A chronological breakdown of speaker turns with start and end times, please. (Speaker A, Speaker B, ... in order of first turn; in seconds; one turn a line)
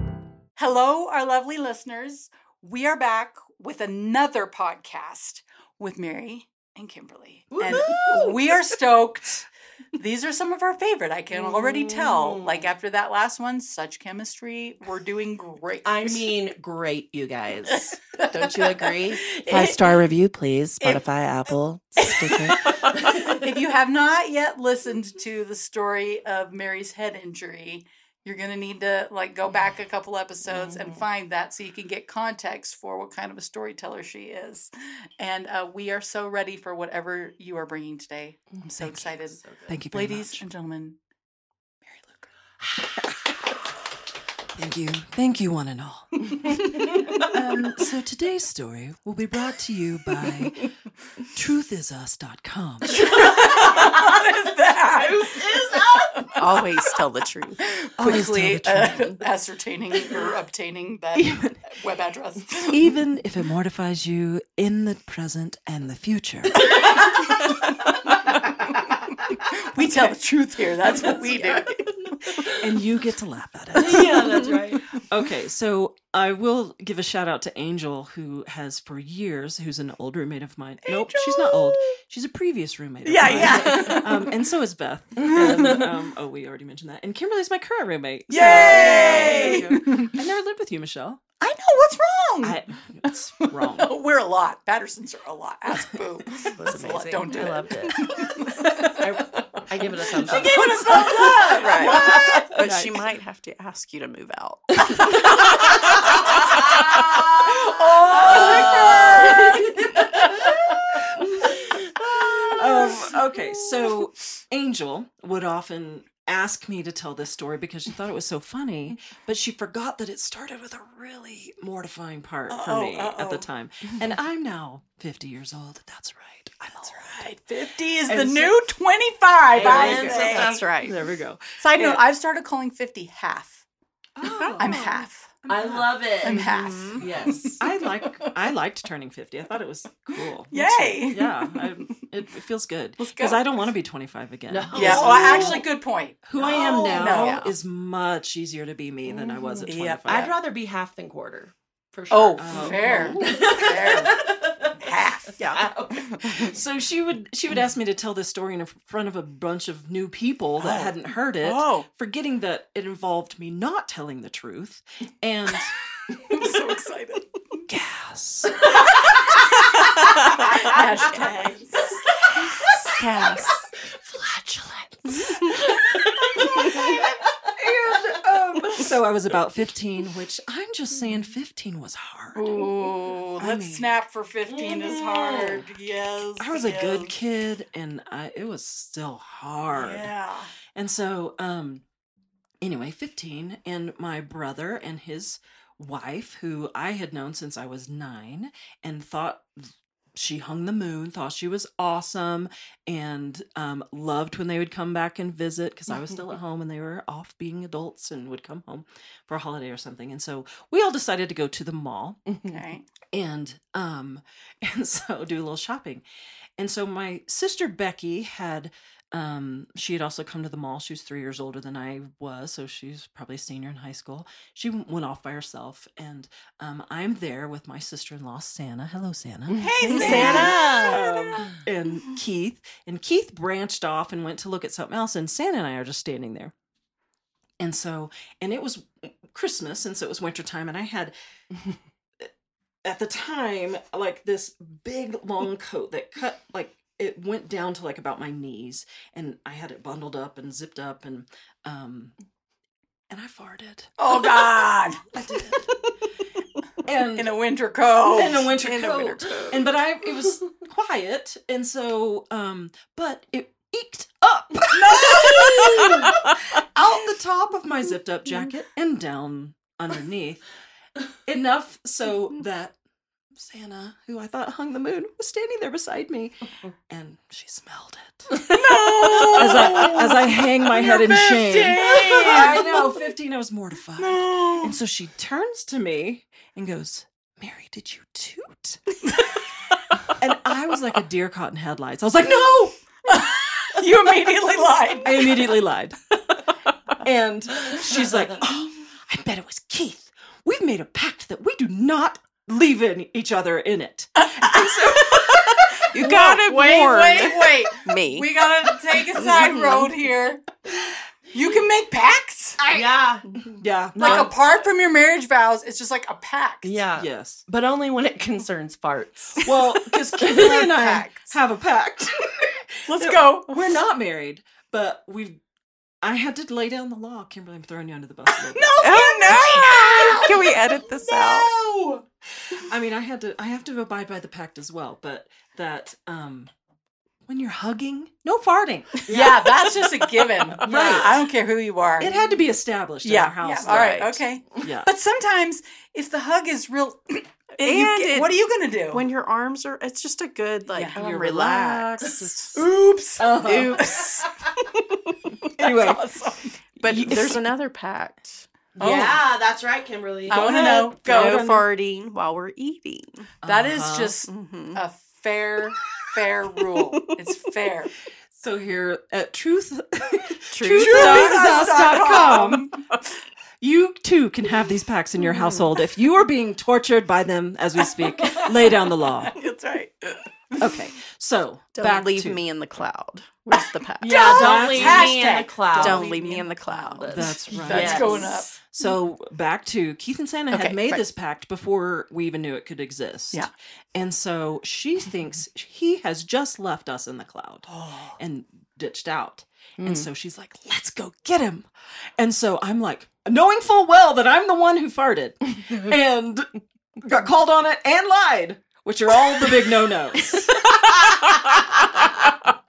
Speaker A: 0.6-9.5
Speaker B: 7.6-8.3
Speaker C: 7.7-7.9
Speaker A: 10.0-16.3
Speaker C: 11.3-12.7
Speaker C: 15.8-23.5
Speaker A: 18.1-20.0
Speaker A: 20.8-41.0
Speaker C: 30.4-31.0
Speaker C: 38.6-39.8
Speaker B: 39.7-40.4
Speaker B: 44.5-50.7
Speaker B: 51.3-53.0
Speaker A: 52.9-56.9
Speaker C: 53.4-54.0
Speaker C: 54.9-56.3
Speaker D: 56.4-57.6
Speaker A: 57.6-62.9
Speaker B: 58.0-59.1
Speaker B: 61.1-61.7
Speaker B: 62.7-66.8
Speaker A: 66.7-72.4
Speaker D: 67.5-67.7
Speaker D: 70.9-72.4
Speaker B: 72.5-91.2
Speaker C: 73.8-74.8
Speaker A: 80.9-81.9
Speaker A: 83.0-84.3
Speaker A: 85.3-85.9
Speaker A: 88.3-90.2
Speaker C: 88.4-89.8
Speaker D: 89.0-89.5
Speaker A: 91.4-102.5
Speaker B: 92.4-93.9
Speaker C: 96.6-98.1
Speaker C: 99.0-102.3
Speaker B: 100.2-103.1
Speaker D: 101.4-106.6
Speaker A: 105.2-110.7
Speaker B: 107.1-107.4
Speaker B: 108.2-110.0
Speaker D: 108.2-109.3
Speaker C: 108.2-109.6
Speaker B: 112.2-127.3
Speaker A: 122.5-123.5
Speaker A: 126.8-130.7
Speaker B: 128.0-128.6
Speaker C: 129.5-130.6
Speaker B: 129.6-132.0
Speaker D: 129.8-131.0
Speaker A: 131.6-133.7
Speaker B: 134.2-134.8
Speaker D: 134.2-135.0
Speaker A: 134.6-135.3
Speaker B: 135.4-136.1
Speaker C: 135.5-137.6
Speaker A: 136.2-138.4
Speaker D: 136.4-137.0
Speaker B: 137.6-145.7
Speaker A: 140.5-141.9
Speaker A: 143.0-143.5
Speaker C: 144.5-145.7
Speaker A: 144.7-147.4
Speaker B: 146.2-150.3
Speaker C: 146.4-147.0
Speaker D: 147.1-147.5
Speaker C: 149.1-154.8
Speaker A: 149.7-150.3
Speaker A: 152.1-155.9
Speaker B: 152.4-153.7
Speaker D: 155.4-156.5
Speaker C: 155.4-155.9
Speaker B: 156.2-165.8
Speaker A: 160.6-161.9
Speaker A: 166.2-167.4
Speaker B: 167.7-168.7
Speaker A: 168.8-172.2
Speaker D: 170.0-171.3
Speaker C: 172.4-177.5
Speaker D: 172.5-173.7
Speaker B: 177.5-182.5
Speaker D: 182.4-183.3
Speaker A: 182.5-187.1
Speaker B: 183.4-183.9
Speaker C: 184.5-185.6
Speaker B: 186.4-190.1
Speaker A: 189.7-190.5
Speaker B: 190.8-191.8
Speaker B: 192.6-212.2
Speaker C: 212.3-212.6
Speaker A: 212.5-212.9
Speaker B: 213.1-216.0
Speaker B: 216.6-236.5
Speaker C: 229.5-231.1
Speaker A: 229.6-231.3
Speaker B: 237.6-241.2
Speaker B: 242.8-252.1
Speaker B: 253.1-253.9
Speaker A: 254.0-255.1
Speaker B: 255.1-255.7
Speaker B: 256.9-257.4
Speaker A: 257.2-258.5
Speaker B: 258.0-270.4
Speaker D: 258.5-259.6
Speaker A: 264.7-265.9
Speaker B: 271.3-272.8
Speaker B: 273.4-276.4
Speaker B: 276.9-289.4
Speaker A: 278.4-283.0
Speaker A: 284.0-284.7
Speaker B: 290.1-292.8
Speaker A: 293.1-295.5
Speaker B: 295.0-296.2
Speaker B: 297.0-305.6
Speaker A: 304.2-305.2
Speaker D: 305.3-308.3
Speaker A: 305.9-312.6
Speaker D: 309.1-309.9
Speaker C: 312.7-313.3
Speaker B: 313.6-314.3
Speaker C: 313.9-314.3
Speaker A: 314.0-316.8
Speaker C: 316.6-319.4
Speaker B: 317.0-317.4
Speaker B: 319.4-325.4
Speaker A: 319.9-321.3
Speaker C: 320.2-320.8
Speaker A: 322.9-323.6
Speaker B: 326.0-328.8
Speaker A: 328.3-330.6
Speaker D: 328.8-331.5
Speaker B: 330.9-332.0
Speaker B: 332.6-336.5
Speaker B: 337.3-339.1
Speaker A: 339.1-342.1
Speaker C: 339.1-339.7
Speaker D: 340.4-341.0
Speaker B: 340.6-341.2
Speaker B: 342.0-344.0
Speaker A: 343.0-349.1
Speaker D: 343.6-344.2
Speaker B: 344.6-344.9
Speaker D: 347.6-348.3
Speaker D: 348.9-352.5
Speaker A: 350.7-351.0
Speaker B: 350.9-352.6
Speaker C: 351.0-351.3
Speaker A: 352.5-354.3
Speaker B: 353.2-353.9
Speaker D: 353.4-353.9
Speaker D: 354.6-355.3
Speaker B: 355.6-356.0
Speaker A: 355.6-356.6
Speaker D: 356.8-358.5
Speaker C: 356.9-357.4
Speaker C: 358.8-360.4
Speaker A: 358.8-359.2
Speaker A: 360.3-361.5
Speaker B: 360.3-361.7
Speaker D: 360.9-363.3
Speaker B: 363.4-364.2
Speaker A: 363.4-367.9
Speaker D: 364.2-364.8
Speaker D: 366.8-367.1
Speaker B: 368.4-372.7
Speaker D: 370.5-371.9
Speaker A: 370.7-372.7
Speaker B: 373.6-379.4
Speaker A: 378.0-380.8
Speaker B: 380.6-382.4
Speaker D: 381.8-385.1
Speaker C: 384.0-386.2
Speaker A: 384.1-388.6
Speaker B: 384.1-385.3
Speaker D: 385.7-387.3
Speaker C: 387.0-388.4
Speaker B: 387.0-410.6
Speaker A: 390.5-391.0
Speaker A: 397.7-398.2
Speaker C: 399.8-400.1
Speaker D: 410.4-412.3